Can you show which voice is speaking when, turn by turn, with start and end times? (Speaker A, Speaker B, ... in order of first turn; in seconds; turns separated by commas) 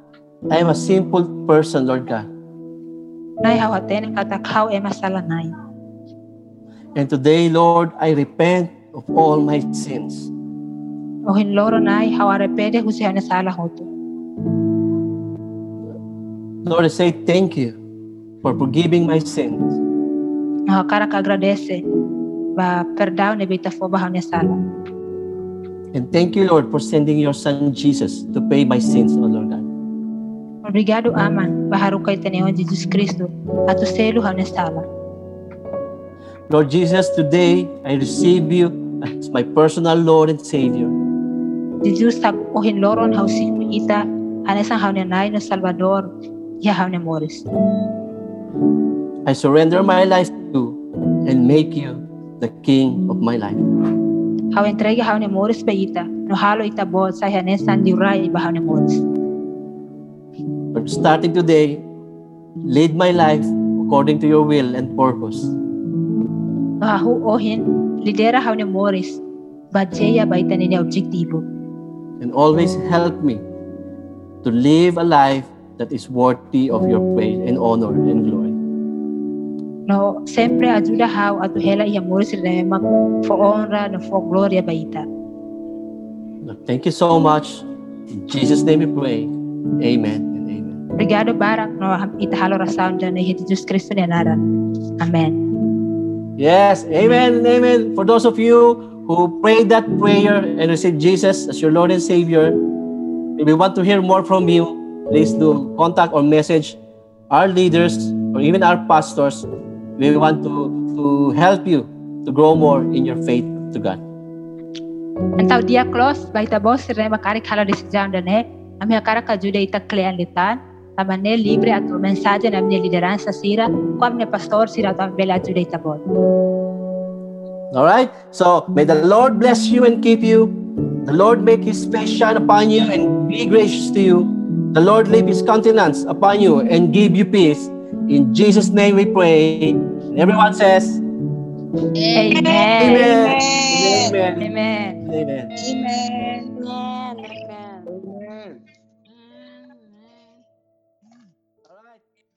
Speaker A: 0.5-2.3, Speaker B: 3.4-5.5, Speaker A: 6.9-10.3, Speaker B: 11.3-13.9, Speaker A: 16.6-17.8, Speaker A: 18.4-19.8, Speaker B: 20.7-21.8, Speaker B: 22.6-24.6, Speaker A: 25.9-29.7, Speaker B: 30.6-34.8, Speaker A: 36.5-40.9, Speaker B: 41.8-46.1, Speaker B: 46.6-47.5, Speaker A: 49.2-53.6, Speaker B: 54.5-59.0, Speaker A: 60.7-61.8, Speaker A: 62.6-65.5, Speaker B: 66.8-69.2, Speaker B: 69.7-71.4, Speaker A: 72.2-73.4, Speaker A: 74.4-78.5, Speaker B: 79.9-85.0, Speaker A: 86.4-90.8, Speaker B: 91.0-94.4, Speaker B: 95.0-95.4, Speaker A: 96.4-102.6, Speaker A: 103.4-106.8, Speaker A: 107.3-109.5, Speaker A: 110.0-114.0, Speaker B: 115.4-126.0, Speaker A: 127.7-130.5, Speaker A: 131.1-141.0, Speaker C: 142.0-144.1, Speaker B: 142.1-143.2, Speaker A: 142.3-144.5, Speaker B: 144.4-145.0, Speaker A: 145.0-145.5, Speaker C: 145.6-148.5, Speaker C: 149.1-150.4, Speaker A: 151.6-152.0